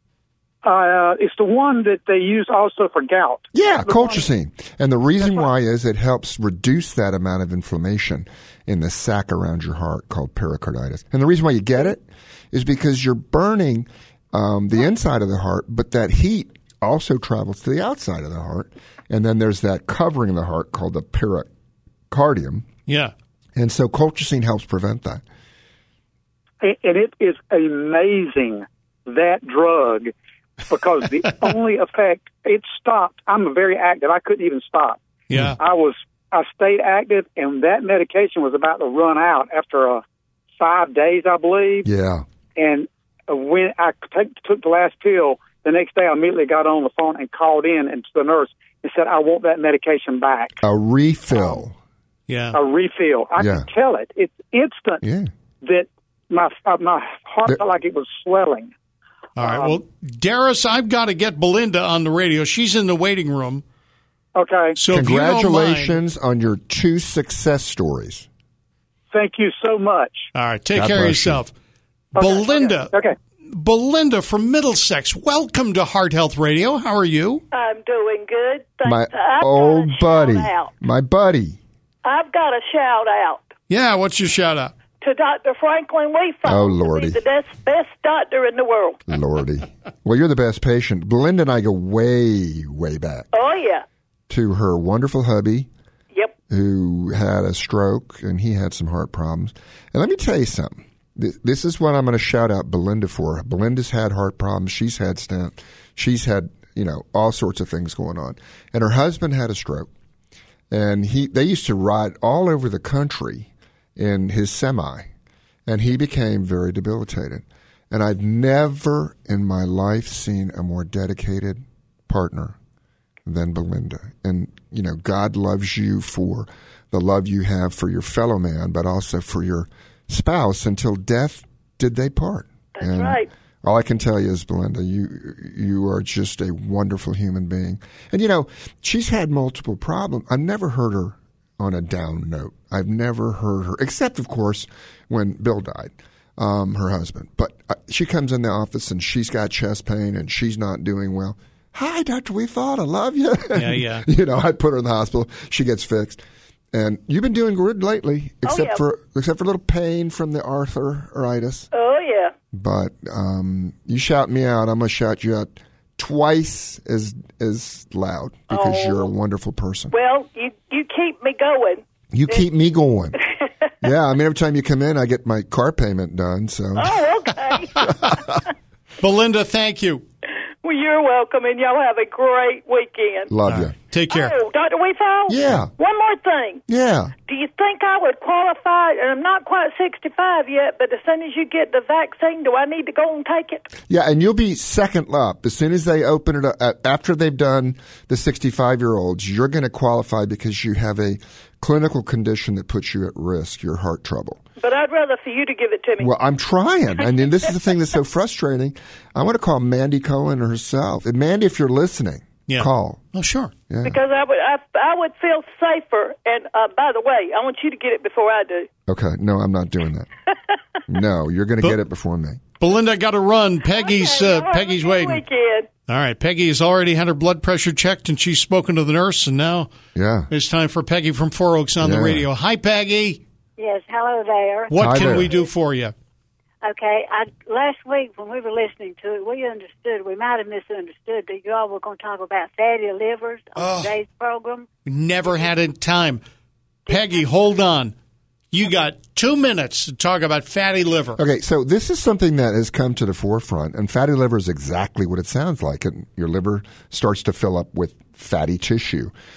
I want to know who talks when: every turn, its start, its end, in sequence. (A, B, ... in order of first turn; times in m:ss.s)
0:00.6-0:04.3 A
0:03.5-0:21.5 B
0:05.2-0:05.5 A
0:22.1-0:22.7 B
0:22.9-0:23.1 C
0:23.6-0:25.2 B
0:26.6-0:30.1 A
0:30.7-0:35.0 A
0:35.3-0:35.6 C
0:35.6-0:40.0 A
0:40.6-0:41.9 A
0:41.8-0:42.2 B
0:42.6-0:50.6 A
0:50.6-0:51.8 B
0:52.3-0:52.6 C
0:52.5-0:55.0 A
0:53.4-0:53.7 B
0:55.0-0:55.3 B
0:55.6-0:58.7 A
0:59.4-1:03.6 C
0:59.4-0:59.8 A
1:04.3-1:04.8 A
1:04.8-1:06.0 C
1:04.9-1:08.3 B
1:09.1-1:10.3 A
1:10.3-1:11.5 C
1:10.7-1:11.4 B
1:12.1-1:12.9 C
1:12.1-1:13.2 A
1:13.5-1:17.4 C
1:17.5-1:20.7 D
1:18.8-1:21.6 B
1:22.0-1:23.5 D
1:23.7-1:24.7 C
1:25.0-1:29.1 D
1:26.4-1:27.2 B
1:29.1-1:33.3 B
1:33.3-1:33.8 D
1:34.3-1:35.7 B
1:36.5-1:49.9 B
1:50.7-1:55.1 B
1:55.6-2:02.6 B
2:03.2-2:36.2 B
2:12.8-2:13.3 D
2:33.5-2:34.1 C
2:36.7-2:41.7 B
2:38.4-2:38.8 D
2:41.7-2:42.3 D
2:42.5-2:49.9 B
2:48.5-2:49.1 D
2:49.9-2:52.4 D
2:52.1-2:53.2 B
2:53.8-2:57.0 B
2:56.8-2:58.2 D
2:59.0-3:00.0 C
3:00.6-3:03.3 D
3:03.3-3:03.7 B
3:03.4-3:04.4 C
3:04.1-3:06.6 D
3:05.3-3:05.7 B
3:06.7-3:07.1 B
3:07.2-3:13.7 D
3:13.9-3:24.4 B
3:24.6-3:26.1 D
3:26.0-3:33.0 B
3:32.5-3:33.5 C
3:33.7-3:34.0 B
3:33.8-3:38.7 D
3:38.9-3:40.1 B
3:40.9-3:42.4 B
3:42.6-3:45.2 C
3:43.7-3:45.7 D
3:45.9-3:49.7 C
3:49.9-3:50.3 B
3:50.3-3:53.2 C
3:51.8-3:52.2 B
3:53.6-3:55.5 E
3:54.7-3:55.9 C
3:54.8-3:55.3 B
3:56.6-4:04.7 E
4:03.6-4:03.9 C
4:04.8-4:06.2 C
4:06.9-4:07.5 E
4:06.9-4:07.9 C
4:08.5-4:11.2 C
4:11.2-4:19.1 B